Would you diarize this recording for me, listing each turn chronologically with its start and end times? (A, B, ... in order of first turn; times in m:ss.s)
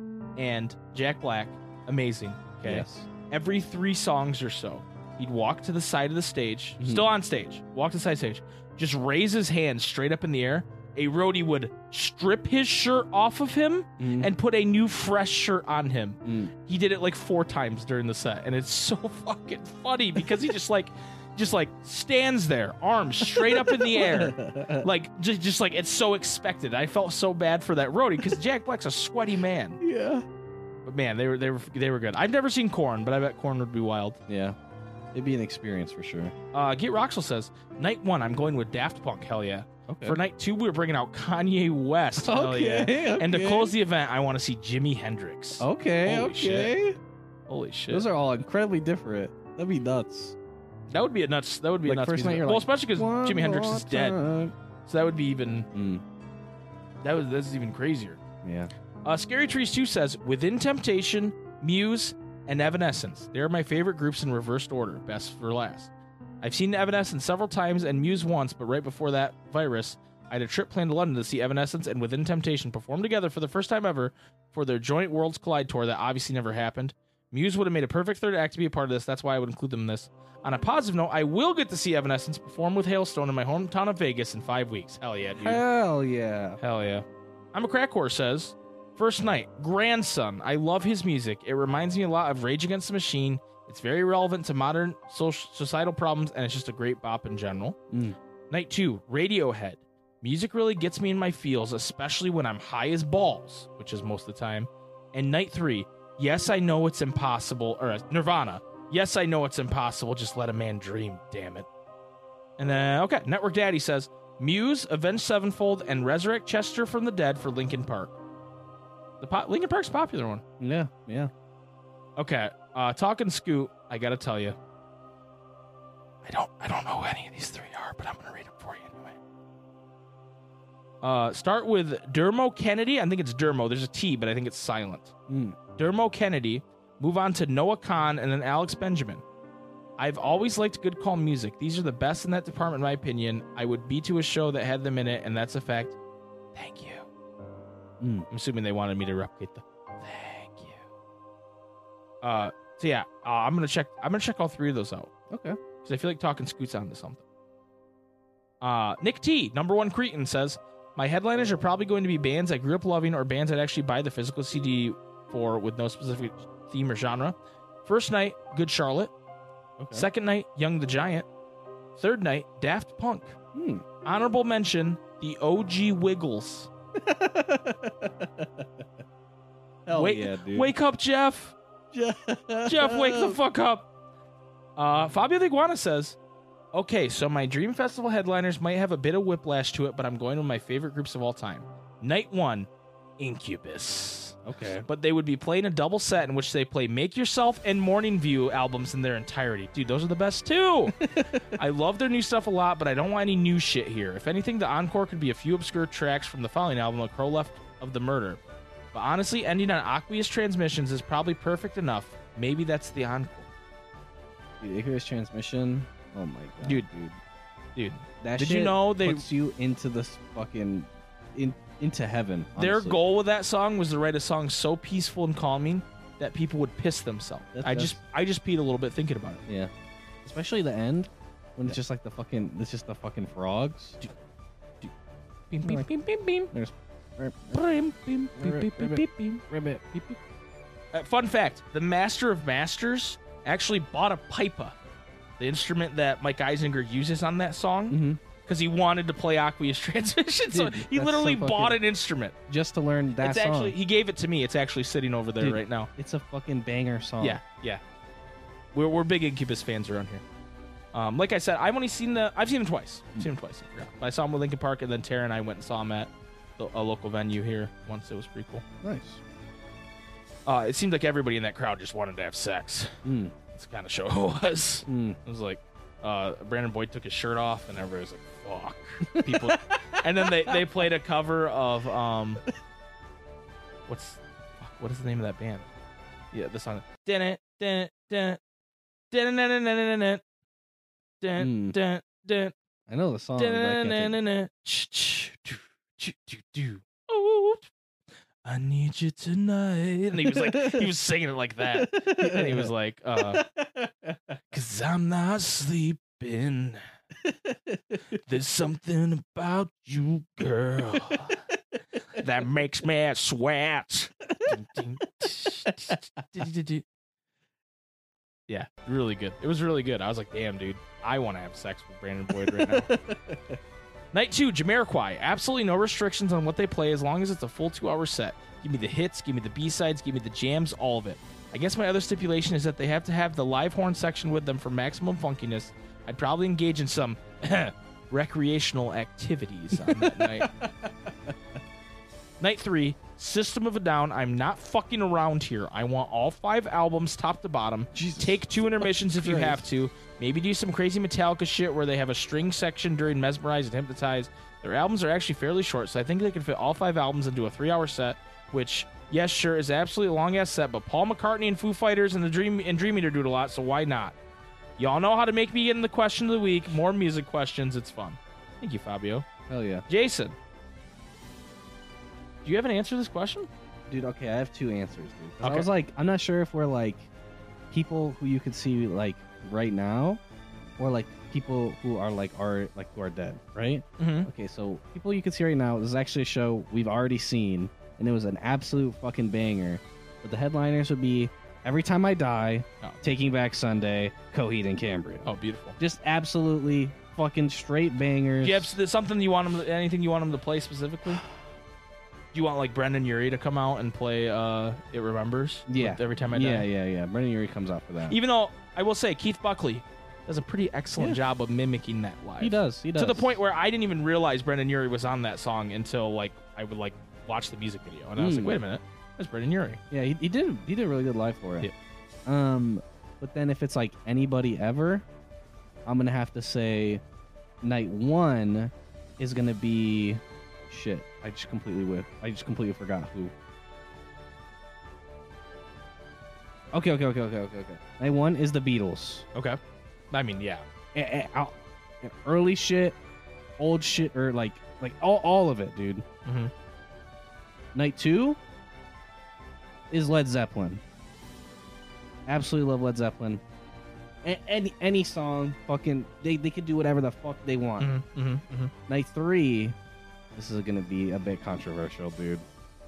0:00.4-0:29.8 A
0:02.6-0:03.1 B
0:06.8-0:07.1 B
0:14.0-0:14.3 B
0:16.2-0:16.5 B
0:23.2-0:24.9 B
0:29.8-0:30.2 B
0:30.9-0:34.2 A
0:34.3-0:34.6 B
0:35.1-0:36.3 B
0:36.5-0:46.7 A
0:39.9-0:40.2 B
0:42.2-0:43.8 B
0:45.6-0:47.0 B
0:47.5-0:48.1 A
0:47.9-0:50.4 B
0:50.9-0:54.2 A
0:51.8-0:54.5 B
0:54.9-0:55.7 A
0:55.7-0:56.0 B
0:57.0-0:58.2 A
0:58.4-0:58.7 B
0:59.0-1:05.9 A
1:06.4-1:25.6 A
1:25.4-1:26.6 B
1:26.6-1:37.8 A
1:37.9-1:38.2 B
1:38.5-1:51.7 A
1:52.6-1:58.2 A
1:59.2-2:00.4 A
2:00.6-2:01.3 B
2:02.2-2:04.6 A
2:06.2-2:09.2 A
2:11.0-2:15.1 A
2:15.3-2:15.6 B
2:15.8-2:19.2 A
2:20.0-2:26.0 A
2:26.6-2:27.1 A
2:28.0-2:28.3 B
2:28.3-2:30.8 A
2:32.2-2:35.1 A
2:35.3-2:35.6 B
2:35.8-2:37.2 A
2:38.6-2:49.1 A
2:49.8-2:50.1 B
2:49.9-2:51.3 A
2:52.0-2:53.4 A
2:53.5-2:53.8 B
2:54.0-2:56.7 A
2:57.0-2:58.9 B
2:59.9-3:00.7 B
2:59.9-3:01.6 A
3:01.9-3:03.4 B
3:02.6-3:03.9 A
3:04.8-3:06.2 A
3:06.7-3:28.4 A
3:14.4-3:14.9 B
3:21.0-3:21.4 B
3:28.9-3:33.5 A
3:34.6-3:37.2 B
3:36.6-3:36.9 A
3:37.8-3:39.2 A
3:38.2-3:43.0 B
3:42.6-3:49.4 A
3:47.5-3:48.0 B
3:50.2-3:54.0 B
3:55.5-3:56.5 A
3:56.5-3:57.6 B
3:57.5-3:59.4 A
3:58.4-4:00.2 B
4:00.9-4:04.8 A
4:05.4-4:12.4 A
4:07.9-4:08.2 B
4:10.5-4:11.8 B
4:12.5-4:13.8 B
4:13.2-4:15.9 A
4:15.4-4:17.4 B
4:17.2-4:17.8 A
4:18.7-4:20.2 A
4:20.9-4:28.6 A
4:28.8-4:29.2 B
4:30.5-4:33.0 A
4:33.0-4:33.3 B
4:33.5-4:42.4 A
4:34.9-4:35.2 B
4:39.1-4:40.6 B
4:43.9-4:45.7 A
4:46.3-4:48.4 A
4:49.1-4:50.2 A
4:51.2-4:52.5 A
4:51.4-4:51.8 B
4:52.9-4:54.2 B
4:53.4-4:57.7 A
4:58.4-5:03.4 A
5:00.2-5:00.9 B
5:01.8-5:04.2 B
5:04.5-5:06.8 A
5:07.2-5:08.0 B
5:08.1-5:11.4 A
5:12.1-5:16.8 A
5:15.7-5:15.9 B
5:18.5-5:23.0 A
5:22.3-5:23.6 B
5:24.1-5:40.5 A
5:39.8-5:41.4 B
5:42.4-6:04.2 A
5:47.9-5:49.6 B
6:04.8-6:09.3 A
6:09.5-6:09.9 B
6:09.9-6:10.4 A
6:12.4-6:13.5 A
6:13.9-6:17.1 B
6:15.4-6:15.7 A
6:17.7-6:20.2 B
6:20.8-6:35.3 B
6:24.0-6:24.3 A
6:35.2-6:35.8 A
6:35.8-6:38.8 B
6:38.4-6:41.2 A
6:42.3-6:46.7 A
6:45.7-6:48.2 B
6:48.1-6:59.8 A
6:52.4-6:53.4 B
6:58.2-6:58.6 B
6:59.9-7:01.7 B
7:02.3-7:05.0 B
7:05.8-7:07.0 B
7:07.6-7:13.3 B
7:16.7-7:19.3 B
7:20.1-7:20.6 A
7:20.9-7:23.0 B
7:23.6-7:26.0 B
7:26.3-7:26.5 A
7:27.7-7:28.4 B
7:29.9-7:30.8 B
7:32.3-7:33.4 B
7:34.2-7:37.9 B
7:37.8-7:38.7 A
7:38.9-7:39.8 B
7:40.4-7:42.4 B